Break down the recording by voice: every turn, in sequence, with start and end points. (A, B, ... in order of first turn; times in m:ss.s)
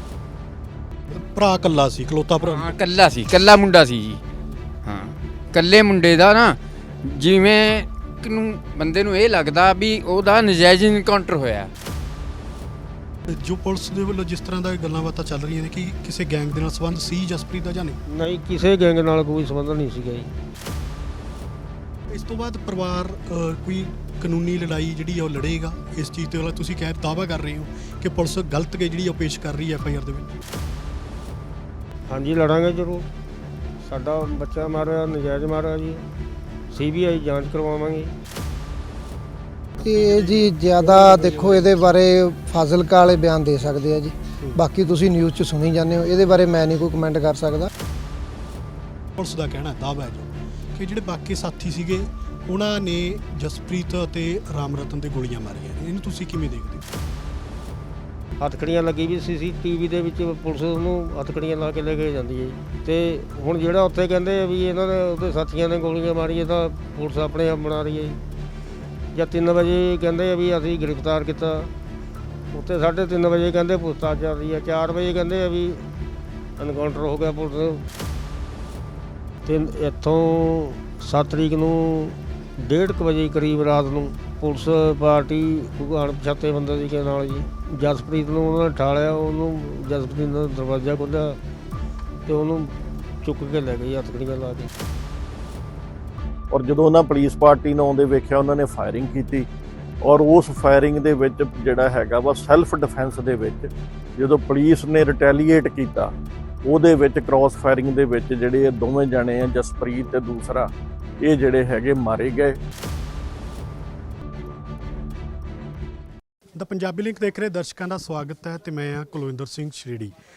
0:01.1-0:02.7 A
0:02.5-0:04.2 B
0:04.8-0:11.7 B
0:13.3-0:18.0 A
0:18.0-0:20.3 C
0:22.1-0:30.4 A
0:32.1-0:33.1 C
0:33.8-0:36.1 C
0:36.7-0:38.1 C
0:39.8-0:40.5 A
0:39.8-0:47.7 D
0:41.0-0:41.4 A
0:49.2-0:56.8 A
0:58.4-1:08.2 C
1:09.1-1:11.7 C
1:12.5-1:15.9 C
1:16.6-1:17.9 C
1:19.4-1:31.4 C
1:32.2-1:34.7 C
1:37.2-1:37.7 E
1:40.1-1:43.6 E
1:44.2-1:46.0 E
1:46.7-1:50.6 E
1:51.3-1:52.5 E
1:56.6-2:00.1 A